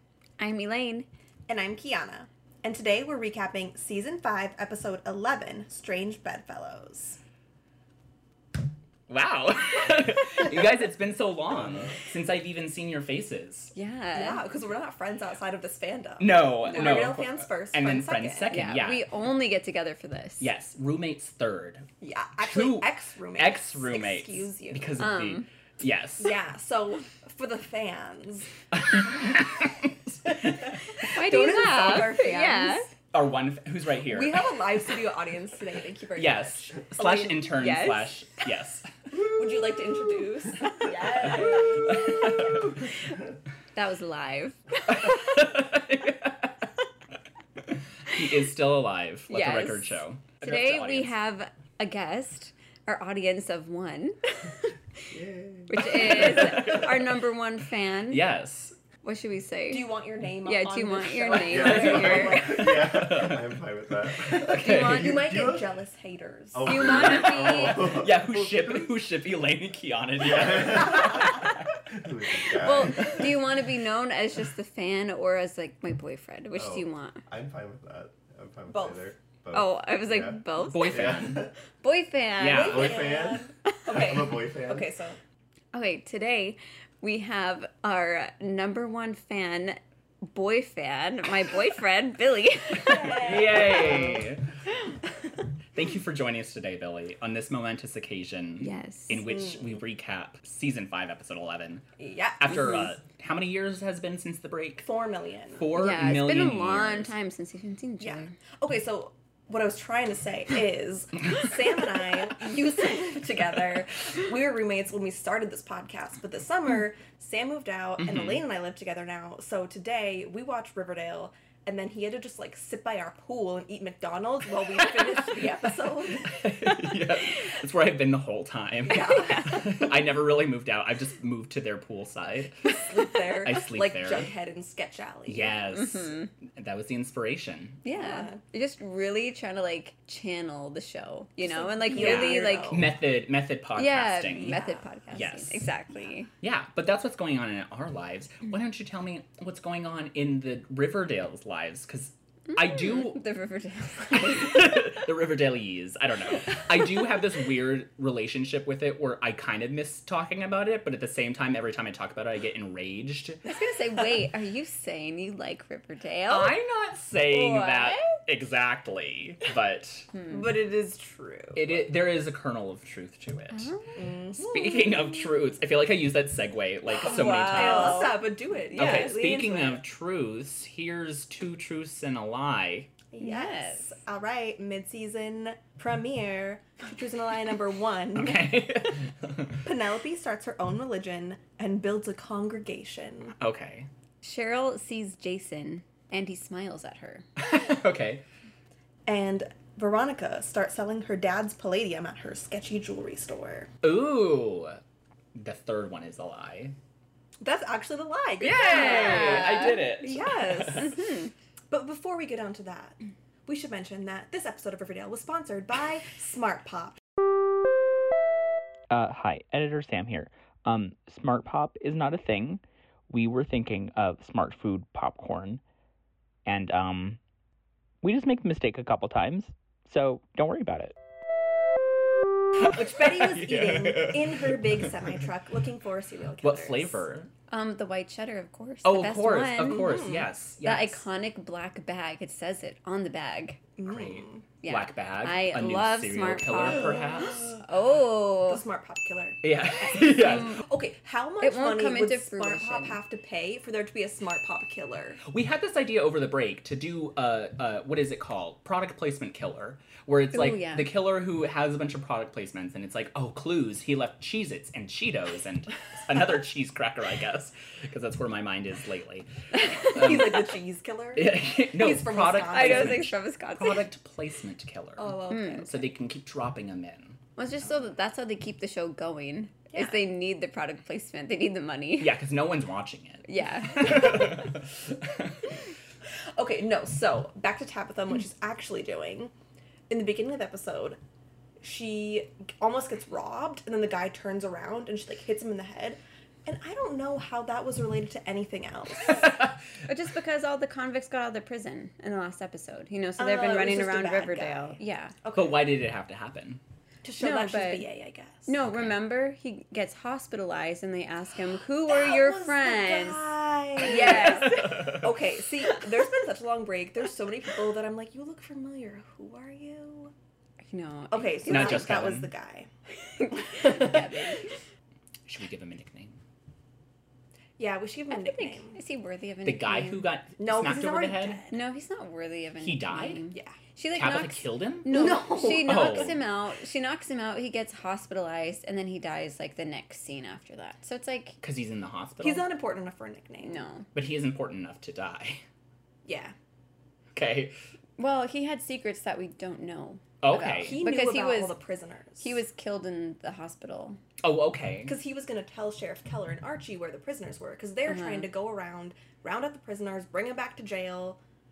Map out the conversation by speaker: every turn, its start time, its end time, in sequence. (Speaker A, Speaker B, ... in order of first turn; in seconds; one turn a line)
Speaker A: 0.4-1.1
Speaker B: 1.5-7.2
Speaker C: 9.1-13.7
Speaker A: 13.7-14.4
Speaker B: 14.1-18.7
Speaker C: 16.2-19.0
Speaker A: 16.7-17.0
Speaker A: 18.5-20.5
Speaker C: 20.4-21.9
Speaker B: 22.0-24.9
Speaker C: 22.4-26.3
Speaker A: 25.0-25.4
Speaker B: 26.2-28.5
Speaker C: 28.8-31.1
Speaker B: 30.7-32.9
Speaker A: 31.1-32.9
Speaker C: 33.1-34.6
Speaker B: 34.0-37.5
Speaker C: 36.1-38.9
Speaker A: 37.5-38.2
Speaker B: 39.1-42.1
Speaker A: 40.8-42.6
Speaker C: 41.9-42.6
Speaker A: 43.7-45.2
Speaker C: 44.9-46.5
Speaker C: 48.1-51.1
Speaker A: 48.1-48.3
Speaker A: 49.3-54.7
Speaker D: 55.1-56.8
Speaker A: 55.7-58.2
Speaker C: 55.9-57.0
Speaker C: 58.1-58.8
Speaker A: 59.0-59.9
Speaker B: 59.7-62.5
Speaker A: 60.4-62.5
Speaker D: 61.5-65.7
Speaker C: 61.5-63.5
Speaker C: 64.1-65.3
Speaker B: 64.6-66.9
Speaker D: 66.5-68.9
Speaker A: 66.7-68.0
Speaker C: 66.8-71.7
Speaker D: 70.2-73.4
Speaker A: 72.5-77.2
Speaker D: 76.5-81.5
Speaker B: 78.7-79.1
Speaker A: 79.5-81.2
Speaker C: 80.7-81.5
Speaker A: 81.8-83.1
Speaker C: 82.4-83.0
Speaker B: 82.5-85.2
Speaker D: 82.5-84.9
Speaker A: 85.7-94.2
Speaker B: 92.7-94.2
Speaker C: 93.2-94.4
Speaker C: 95.7-101.8
Speaker A: 98.6-99.2
Speaker B: 99.2-99.8
Speaker B: 102.0-102.9
Speaker C: 102.4-104.9
Speaker B: 104.8-105.7
Speaker C: 105.5-107.1
Speaker A: 105.7-108.3
Speaker B: 108.0-126.6
Speaker C: 118.0-118.4
Speaker C: 125.1-125.4
Speaker C: 126.2-134.3
Speaker B: 128.9-129.9
Speaker B: 132.7-135.5
Speaker C: 135.2-137.8
Speaker A: 135.7-136.3
Speaker A: 137.8-142.8
Speaker B: 137.9-138.4
Speaker B: 141.4-142.9
Speaker C: 141.9-144.6
Speaker A: 143.7-146.3
Speaker B: 144.5-144.8
Speaker C: 145.1-145.7
Speaker C: 146.4-153.2
Speaker A: 152.5-154.9
Speaker C: 154.1-163.4
Speaker A: 163.4-166.6
Speaker C: 166.3-170.1
Speaker A: 167.3-168.2
Speaker A: 170.2-170.4
Speaker B: 170.2-171.9
Speaker C: 171.5-173.7
Speaker A: 173.5-174.2
Speaker B: 173.9-175.3
Speaker C: 174.3-178.2
Speaker B: 176.9-179.8
Speaker A: 177.0-179.2
Speaker C: 178.7-182.9
Speaker B: 183.1-188.7
Speaker A: 183.2-183.9
Speaker C: 188.1-189.6
Speaker B: 189.6-193.3
Speaker C: 193.4-193.9
Speaker A: 194.2-197.2
Speaker C: 197.4-198.2
Speaker B: 199.1-203.7
Speaker C: 203.8-204.8
Speaker C: 205.3-206.7
Speaker B: 207.4-217.0
Speaker C: 208.4-211.0
Speaker A: 208.6-209.9
Speaker A: 211.0-211.3
Speaker C: 218.9-225.6
Speaker C: 226.4-227.2
Speaker C: 228.0-230.9
Speaker B: 232.6-237.0
Speaker C: 233.1-234.9
Speaker C: 236.4-237.3
Speaker A: 237.5-243.6
Speaker C: 238.8-241.0
Speaker B: 239.6-240.2
Speaker B: 243.8-244.4
Speaker C: 243.8-247.6
Speaker A: 244.6-248.6
Speaker B: 246.7-247.6
Speaker B: 248.5-255.2
Speaker C: 249.4-250.6
Speaker A: 251.4-253.0
Speaker C: 255.2-270.5
Speaker A: 260.3-260.9
Speaker B: 269.8-273.1
Speaker C: 271.1-277.2
Speaker A: 272.5-273.9
Speaker B: 275.0-275.8
Speaker A: 275.3-275.7
Speaker A: 277.4-282.2
Speaker B: 279.7-280.0
Speaker C: 282.0-284.8
Speaker A: 283.2-284.4
Speaker B: 286.3-289.3
Speaker B: 289.9-291.0
Speaker B: 291.6-299.4
Speaker C: 299.1-299.4
Speaker A: 299.8-305.1
Speaker B: 303.2-305.6
Speaker C: 305.3-306.6
Speaker B: 307.0-308.5
Speaker A: 307.2-307.9
Speaker A: 308.4-313.2
Speaker C: 308.6-308.9
Speaker B: 311.9-320.1
Speaker A: 313.8-314.9
Speaker C: 314.4-314.9
Speaker A: 320.7-322.0
Speaker B: 321.1-322.7
Speaker C: 321.4-322.3
Speaker A: 323.1-324.5
Speaker C: 325.3-326.2
Speaker B: 327.6-328.8
Speaker A: 328.1-330.1
Speaker C: 329.4-331.4
Speaker B: 330.4-331.5
Speaker A: 331.5-341.4
Speaker C: 332.6-333.2
Speaker B: 333.3-333.6
Speaker C: 333.9-336.2
Speaker B: 334.9-336.1
Speaker C: 341.4-342.4
Speaker B: 342.2-343.6
Speaker A: 343.4-343.9
Speaker C: 343.9-345.4
Speaker B: 346.0-346.3
Speaker C: 347.1-347.5
Speaker A: 348.0-351.5
Speaker C: 350.2-350.8
Speaker B: 350.6-352.4
Speaker A: 352.2-354.0
Speaker C: 354.2-354.9
Speaker B: 354.9-361.2
Speaker A: 357.9-358.3